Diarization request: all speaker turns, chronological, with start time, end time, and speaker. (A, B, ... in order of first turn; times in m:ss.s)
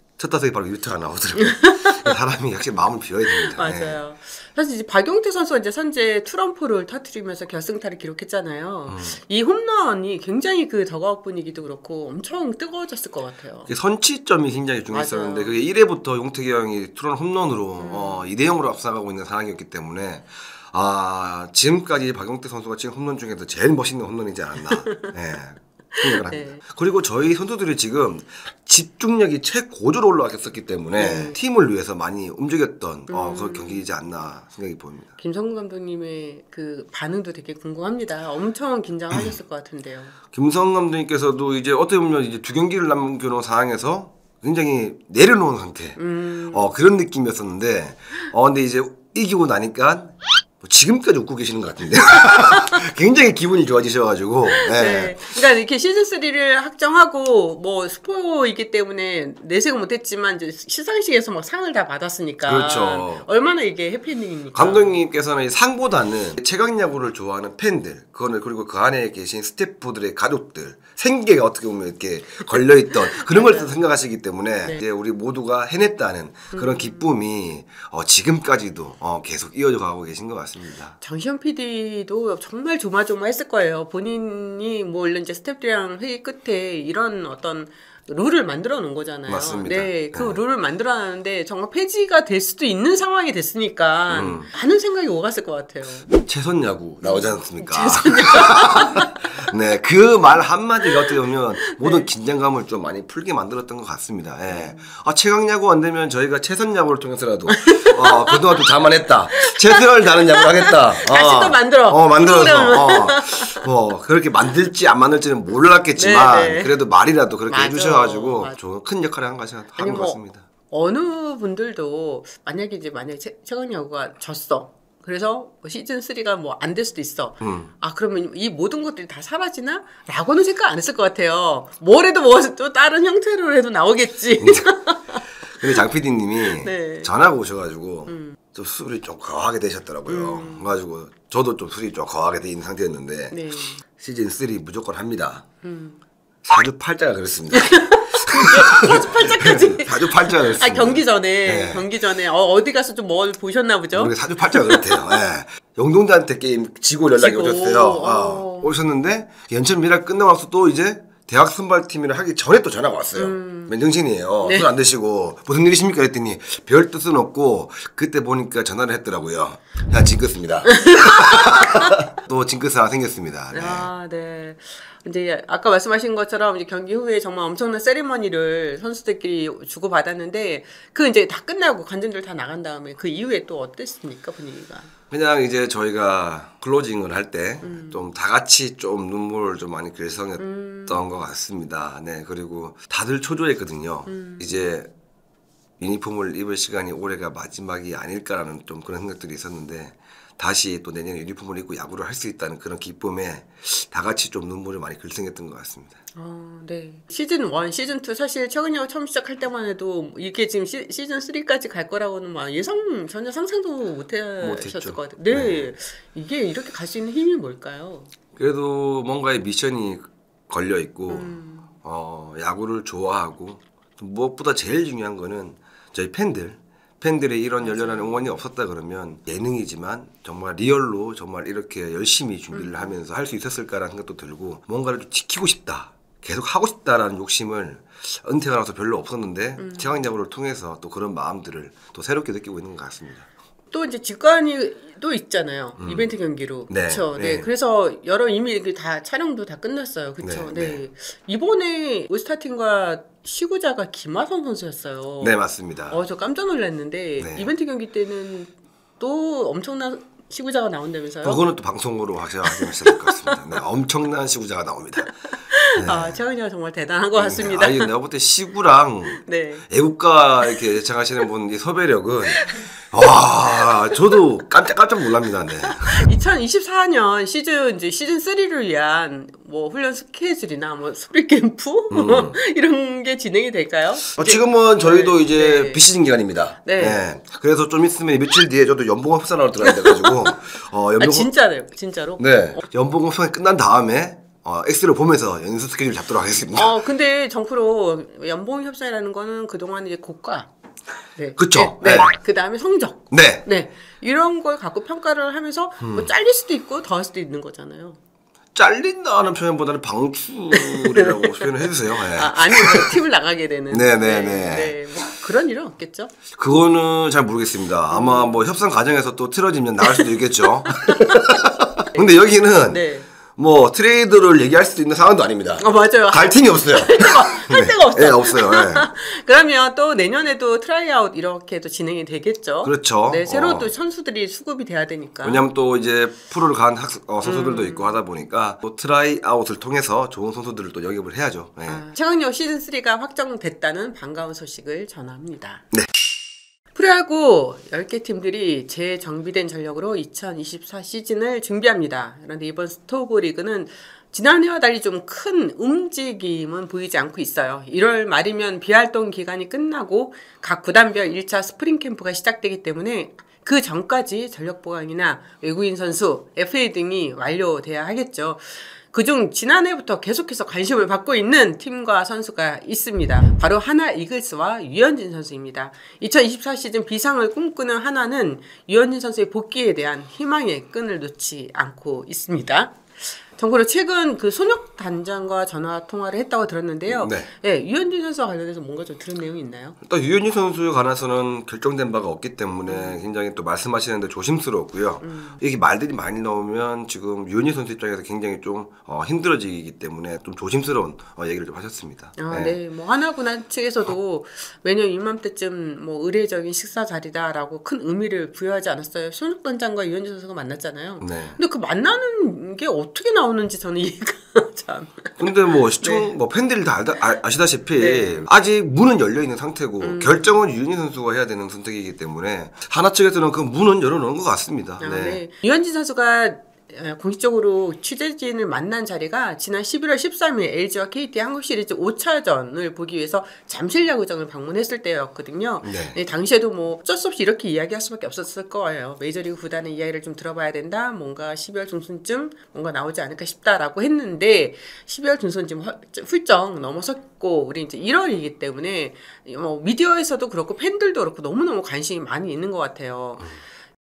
0:00.2-0:04.0 A
0:01.4-0:02.1 B
0:03.3-0:13.7 B
0:08.9-0:09.2 A
0:13.7-0:35.2 A
0:14.9-0:15.6 B
0:17.8-0:18.3 B
0:24.7-0:25.1 B
0:26.0-0:26.6 B
0:31.0-0:31.4 B
0:33.1-0:33.9 B
0:35.2-0:40.2 B
0:40.3-0:55.2 A
0:46.0-0:46.7 B
0:52.3-0:52.7 B
0:54.5-1:05.0 B
1:02.4-1:03.3 A
1:04.5-1:21.0 A
1:12.4-1:13.8 B
1:16.5-1:17.1 B
1:21.0-1:36.1 B
1:29.3-1:30.4 A
1:34.1-1:34.5 A
1:36.1-2:00.5 A
1:37.0-1:39.4 B
1:40.9-1:42.1 B
1:44.5-1:44.9 B
1:47.5-1:48.6 B
1:49.4-1:53.6 B
1:56.0-1:56.8 B
1:57.5-1:58.6 B
1:59.8-2:15.9 B
2:07.4-2:07.7 A
2:14.4-2:14.7 A
2:15.5-2:25.4 A
2:16.4-2:17.1 B
2:18.1-2:18.4 B
2:20.1-2:20.7 B
2:23.3-2:23.8 B
2:25.6-2:26.0 B
2:26.4-2:31.9 A
2:27.5-2:35.2 B
2:33.9-2:53.9 A
2:37.2-2:38.8 B
2:43.2-2:43.7 B
2:44.4-2:44.7 B
2:50.7-2:52.0 B
2:53.5-3:04.9 B
3:05.1-3:14.9 A
3:07.6-3:08.0 B
3:10.4-3:11.0 B
3:14.1-3:14.7 B
3:15.8-3:26.0 A
3:26.2-3:38.1 B
3:34.4-3:35.7 A
3:38.4-4:03.3 A
3:41.1-3:41.7 B
3:47.6-3:48.4 B
3:52.5-3:53.0 B
3:59.6-4:00.1 B
4:03.7-4:15.4 B
4:05.8-4:06.1 A
4:06.7-4:07.5 A
4:10.2-4:10.8 A
4:15.2-4:16.0 A
4:15.9-4:21.4 B
4:17.2-4:17.5 A
4:21.2-4:25.2 A
4:22.4-4:23.6 B
4:25.3-4:27.9 B
4:25.8-4:26.2 A
4:27.2-4:36.1 A
4:29.1-4:29.6 B
4:33.5-4:34.2 B
4:35.7-4:45.8 B
4:41.9-4:42.4 A
4:44.1-4:51.3 A
4:46.6-4:47.0 B
4:49.6-4:50.4 B
4:51.0-4:52.6 B
4:52.2-4:56.8 A
4:56.5-5:00.5 B
5:01.2-5:08.0 B
5:01.4-5:02.2 A
5:03.1-5:03.5 A
5:05.8-5:06.1 A
5:08.6-5:13.0 A
5:10.5-5:16.1 B
5:13.7-5:14.8 A
5:16.3-5:28.9 A
5:17.9-5:18.5 B
5:19.8-5:20.1 B
5:20.6-5:21.2 B
5:21.9-5:23.1 B
5:25.6-5:35.5 B
5:32.6-5:33.7 A
5:35.2-5:41.8 A
5:37.2-5:38.0 B
5:41.7-5:45.6 B
5:46.7-6:29.8 B
6:26.9-6:27.3 A
6:29.8-6:42.6 A
6:32.7-6:33.0 B
6:35.0-6:35.4 B
6:42.2-6:56.1 B
6:51.0-6:51.4 A
6:55.2-7:05.2 A
6:57.8-6:58.3 B
6:59.8-7:00.4 B
7:04.8-7:33.4 B
7:15.6-7:16.0 A